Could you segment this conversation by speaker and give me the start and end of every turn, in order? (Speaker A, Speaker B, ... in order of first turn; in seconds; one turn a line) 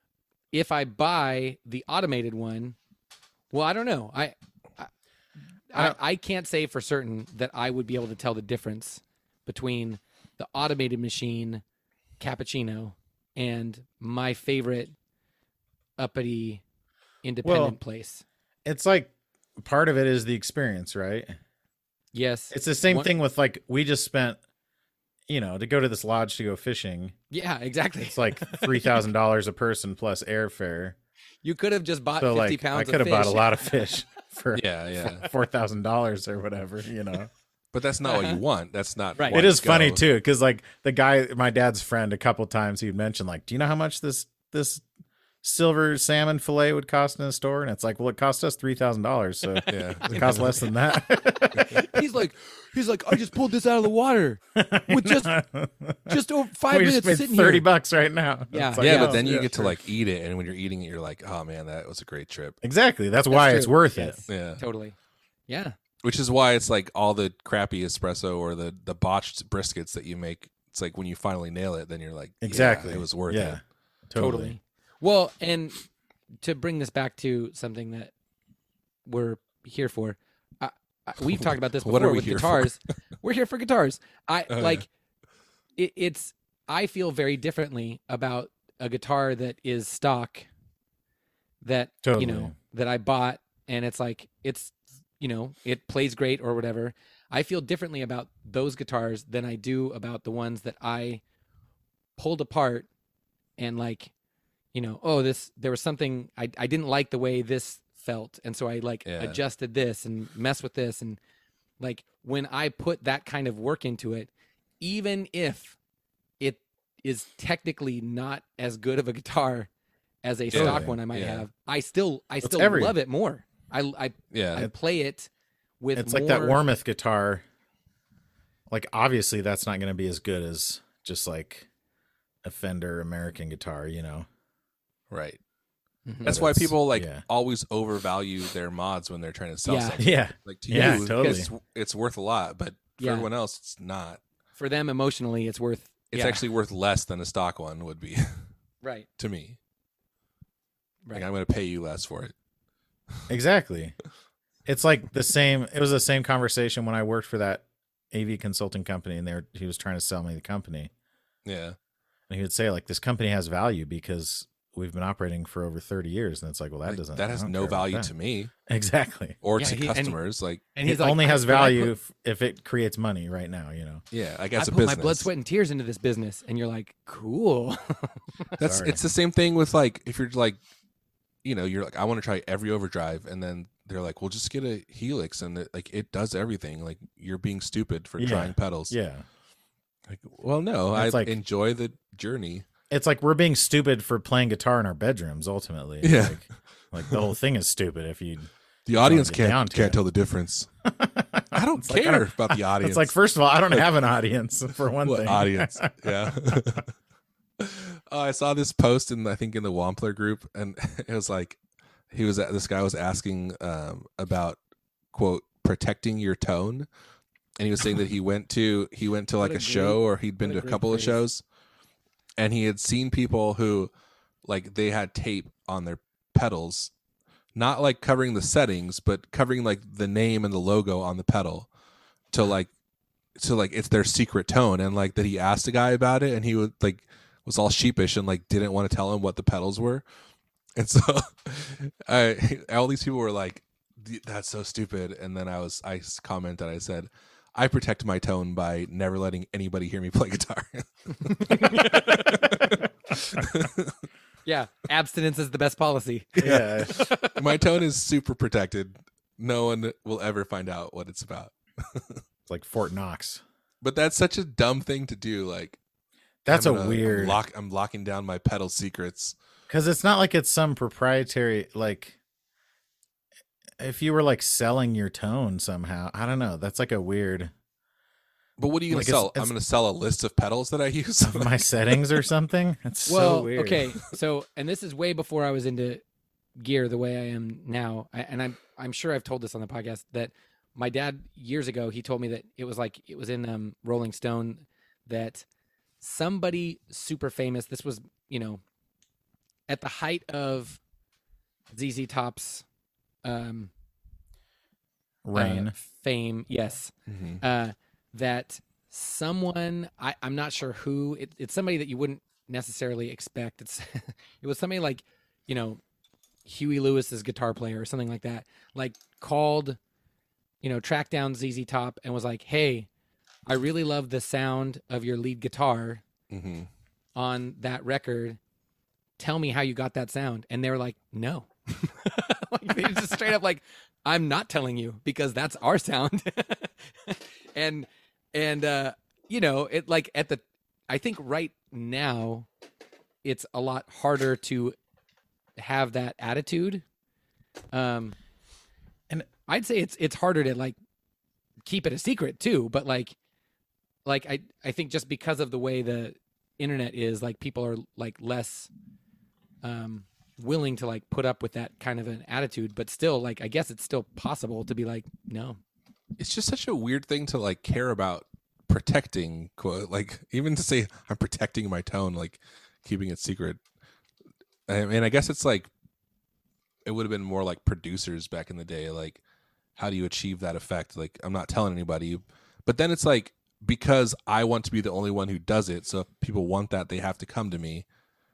Speaker A: 0.5-2.8
Speaker A: 3.5-4.9
Speaker A: 5.7-11.6
Speaker A: 12.2-14.9
Speaker A: 16.0-16.6
Speaker A: 17.2-18.2
Speaker B: 17.4-17.8
Speaker B: 18.6-21.3
Speaker A: 22.1-23.1
Speaker B: 22.5-24.4
Speaker B: 25.3-27.1
Speaker A: 27.3-29.0
Speaker B: 28.1-30.9
Speaker A: 31.4-33.9
Speaker B: 32.2-37.3
Speaker C: 34.5-35.3
Speaker C: 37.7-40.0
Speaker A: 38.0-38.4
Speaker A: 39.2-39.4
Speaker B: 39.3-44.8
Speaker B: 45.4-52.0
Speaker C: 49.7-50.5
Speaker A: 51.0-55.4
Speaker B: 54.5-59.8
Speaker A: 56.1-57.6
Speaker A: 58.5-59.3
Speaker C: 58.8-62.6
Speaker B: 62.6-64.2
Speaker A: 63.3-64.9
Speaker C: 64.3-64.6
Speaker A: 65.5-65.8
Speaker C: 66.0-73.6
Speaker B: 72.4-74.5
Speaker A: 74.2-75.8
Speaker A: 76.4-78.1
Speaker A: 79.0-84.9
Speaker C: 81.2-82.7
Speaker C: 84.5-84.8
Speaker A: 85.8-90.5
Speaker A: 91.6-101.2
Speaker B: 92.0-92.5
Speaker A: 102.2-102.9
Speaker A: 103.6-104.1
Speaker A: 104.7-111.2
Speaker C: 109.0-109.4
Speaker A: 111.8-114.3
Speaker A: 114.8-115.8
Speaker A: 116.4-119.7
Speaker A: 120.2-125.3
Speaker C: 120.5-121.4
Speaker B: 120.5-121.0
Speaker B: 122.4-122.9
Speaker C: 124.3-124.7
Speaker A: 125.8-126.6
Speaker B: 125.9-127.4
Speaker B: 128.7-131.7
Speaker B: 132.4-134.3
Speaker C: 135.1-135.4
Speaker A: 136.1-136.4
Speaker B: 136.2-137.2
Speaker C: 136.2-144.2
Speaker A: 139.6-140.0
Speaker B: 140.0-141.5
Speaker A: 140.7-141.3
Speaker A: 143.0-143.3
Speaker A: 144.6-146.4
Speaker C: 146.1-148.4
Speaker A: 148.8-149.1
Speaker C: 149.2-149.6
Speaker C: 151.1-152.3
Speaker B: 153.3-153.9
Speaker B: 154.7-160.9
Speaker C: 161.4-161.8
Speaker B: 162.3-168.1
Speaker C: 166.8-168.5
Speaker B: 168.7-169.4
Speaker C: 169.4-170.6
Speaker A: 169.6-170.2
Speaker A: 170.7-171.9
Speaker B: 170.8-174.0
Speaker C: 174.1-175.3
Speaker A: 174.6-178.6
Speaker C: 178.6-180.6
Speaker B: 178.6-179.0
Speaker C: 181.4-188.9
Speaker B: 188.2-189.2
Speaker C: 190.1-192.7
Speaker B: 190.9-191.3
Speaker B: 192.9-198.5
Speaker C: 196.0-196.4
Speaker C: 198.8-200.7
Speaker B: 199.0-200.0
Speaker B: 200.8-206.6
Speaker C: 201.5-203.1
Speaker C: 205.0-206.9
Speaker C: 207.6-211.6
Speaker C: 212.1-214.6
Speaker C: 215.1-216.9
Speaker C: 217.6-221.4
Speaker A: 219.4-221.2
Speaker C: 222.4-223.9
Speaker C: 224.4-226.9
Speaker C: 227.5-231.7
Speaker C: 232.3-232.7
Speaker C: 233.4-240.0
Speaker C: 240.8-254.0
Speaker A: 251.4-252.7
Speaker A: 254.4-257.6
Speaker B: 256.4-257.0
Speaker C: 256.4-262.2
Speaker B: 262.5-263.4
Speaker C: 263.8-265.8
Speaker B: 266.4-267.4
Speaker C: 266.5-269.4
Speaker B: 269.7-272.2
Speaker B: 273.8-277.5
Speaker C: 278.6-282.0
Speaker B: 278.9-279.5
Speaker B: 281.2-283.9
Speaker A: 283.1-286.0
Speaker A: 286.6-295.4
Speaker A: 296.0-298.6
Speaker A: 299.7-300.8
Speaker A: 301.7-302.6
Speaker A: 303.2-303.7
Speaker B: 305.2-305.7
Speaker A: 305.3-315.8
Speaker C: 307.1-307.4
Speaker A: 316.4-319.8
Speaker A: 320.6-322.9
Speaker A: 323.4-326.0
Speaker C: 326.3-326.7
Speaker A: 327.1-328.4
Speaker A: 329.2-342.5
Speaker A: 343.2-344.8
Speaker A: 345.6-346.8
Speaker A: 347.7-348.1
Speaker A: 349.5-350.7
Speaker A: 351.6-353.1
Speaker A: 354.0-358.7
Speaker A: 359.6-365.6
Speaker C: 366.2-373.6
Speaker C: 374.7-375.7
Speaker C: 376.9-379.2
Speaker C: 379.8-387.9